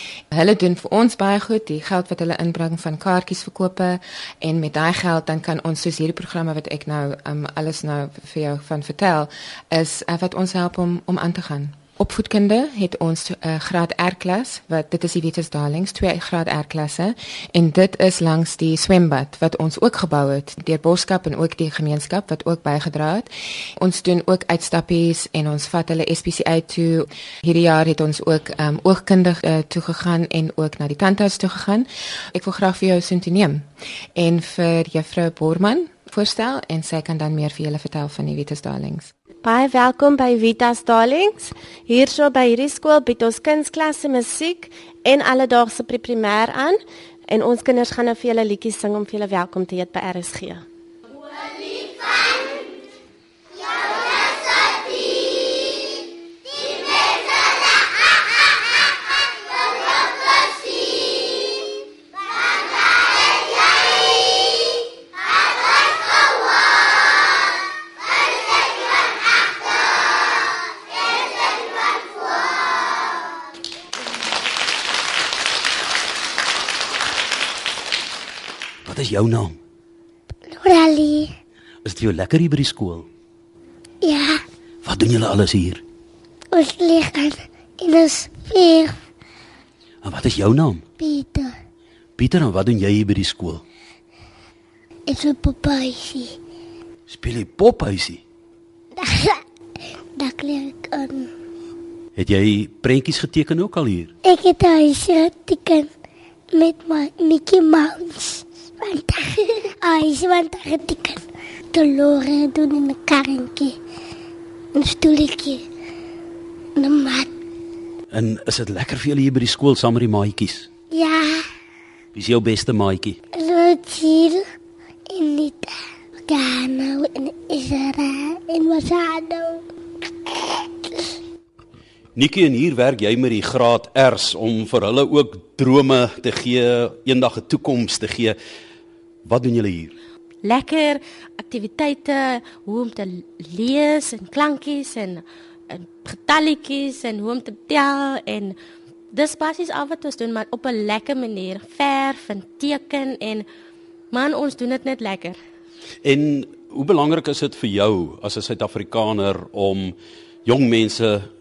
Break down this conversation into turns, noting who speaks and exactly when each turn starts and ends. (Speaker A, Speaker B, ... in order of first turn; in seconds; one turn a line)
Speaker A: 0.3-39.1
Speaker B: 39.4-50.6
Speaker C: 78.8-79.6
Speaker D: 80.5-81.3
Speaker C: 81.8-83.1
Speaker D: 84.0-84.4
Speaker C: 84.8-85.8
Speaker D: 86.5-89.0
Speaker C: 90.0-90.8
Speaker D: 91.0-91.5
Speaker C: 92.2-93.6
Speaker D: 95.1-96.4
Speaker C: 97.1-98.2
Speaker D: 99.0-99.4
Speaker D: 100.2-101.3
Speaker C: 102.2-104.1
Speaker D: 104.2-105.9
Speaker D: 106.5-111.2
Speaker D: 111.7-113.8
Speaker D: 114.8-115.6
Speaker D: 116.8-117.3
Speaker C: 118.1-120.7
Speaker D: 120.9-121.4
Speaker C: 122.1-123.2
Speaker D: 123.3-124.4
Speaker D: 125.1-125.7
Speaker D: 126.3-129.6
Speaker C: 132.2-138.3
Speaker C: 139.2-139.9
Speaker E: 140.4-148.6
Speaker E: 149.1-153.4
Speaker E: 154.1-155.4
Speaker C: 156.0-161.3